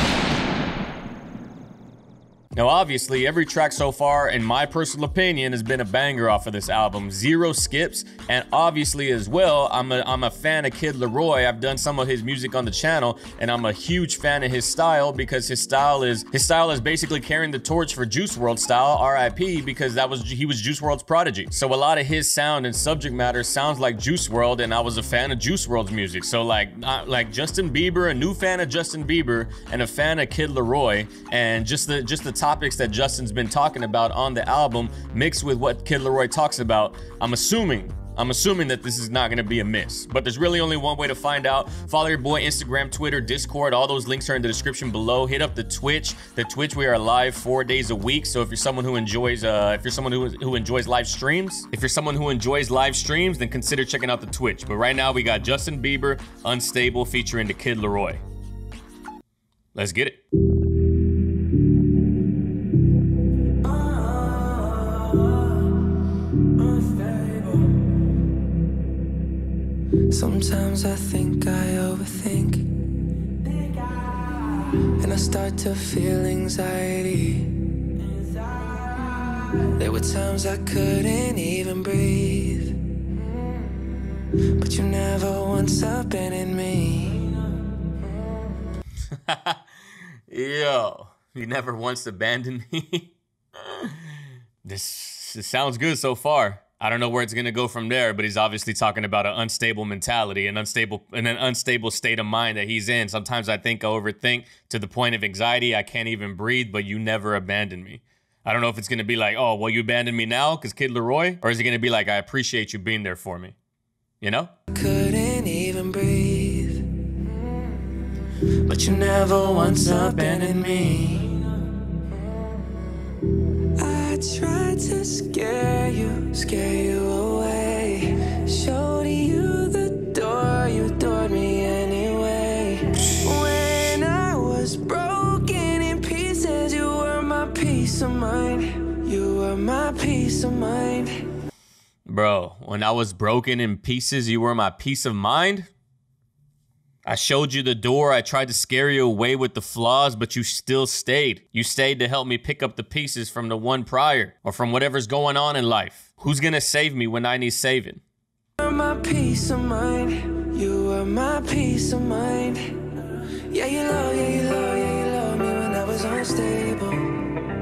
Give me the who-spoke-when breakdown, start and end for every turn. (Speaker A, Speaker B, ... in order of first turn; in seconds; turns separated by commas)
Speaker A: 2.5-58.2, Speaker A: 59.7-60.2, Speaker B: 63.6-65.6, Speaker B: 66.6-67.7, Speaker B: 70.1-72.7, Speaker B: 73.4-82.8, Speaker B: 84.5-87.5, Speaker A: 89.1-89.6, Speaker A: 90.3-113.5, Speaker A: 114.2-114.5, Speaker B: 114.7-117.0, Speaker A: 118.7-121.2, Speaker B: 118.7-121.5, Speaker B: 123.7-141.2, Speaker A: 142.1-145.7, Speaker A: 147.0-158.0, Speaker B: 158.6-167.3